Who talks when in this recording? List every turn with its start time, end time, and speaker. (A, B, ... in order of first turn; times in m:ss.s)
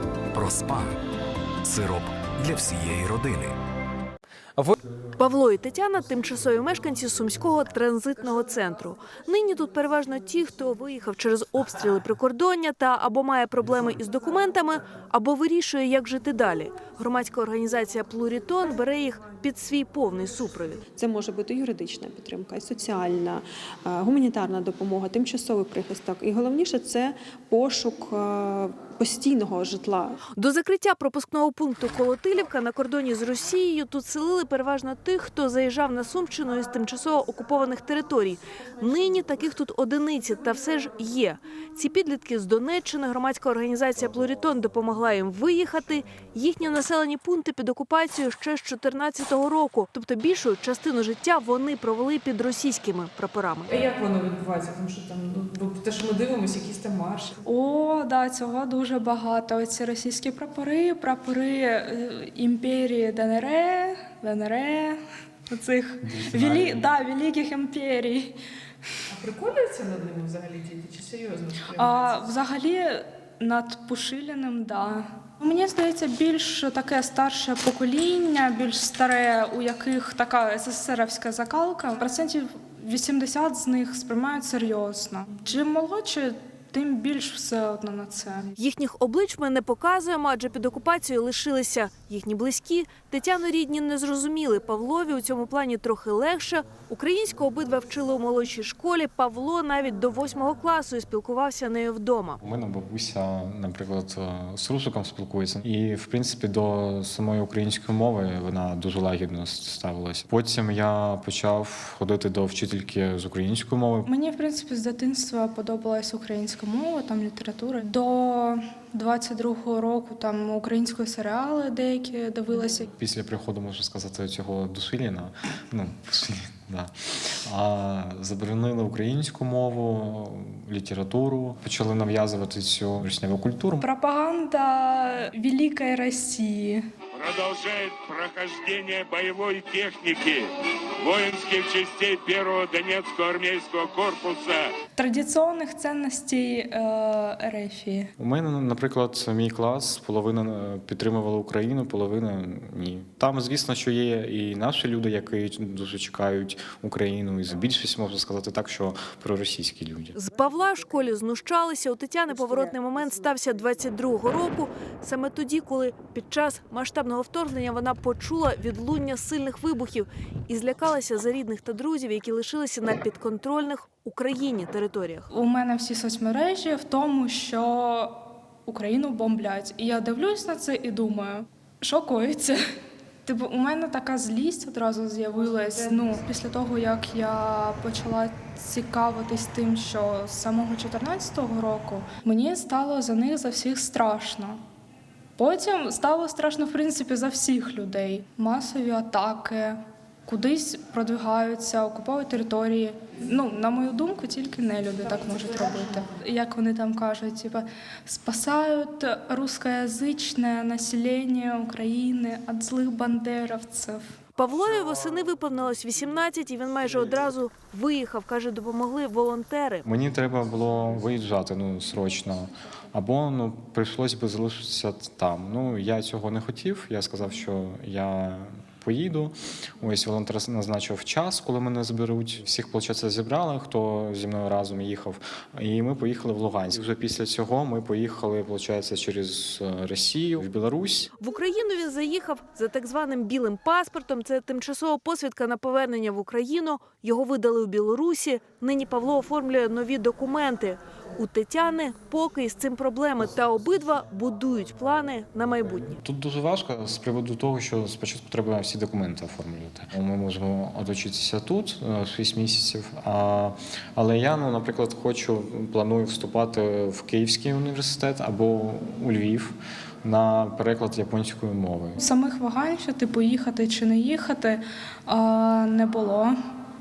0:00.3-0:01.0 A
0:01.6-0:03.6 A
0:05.2-0:20.8 B
0:20.9-0:30.2 C
0:30.3-0:53.7 B
0:53.7-0:57.3 D
0:57.4-1:08.4 E
1:06.0-1:06.9 F
1:09.1-1:12.2 D
1:11.7-1:28.5 E
1:28.6-1:42.4 B
1:42.4-1:54.1 F
1:54.0-2:02.9 E
2:02.9-2:13.8 F
2:13.8-2:16.8 E
2:17.2-2:20.5 G
2:21.0-2:24.7 G
2:24.9-2:28.1 E
2:28.2-2:40.1 F
2:40.1-2:55.3 B
2:55.3-3:02.6 E
3:03.2-3:14.6 E
3:15.4-3:34.0 E
3:34.4-3:39.8 B
3:39.8-4:01.1 F
4:01.2-4:16.0 B
4:16.0-4:32.0 F
4:32.0-4:36.4 E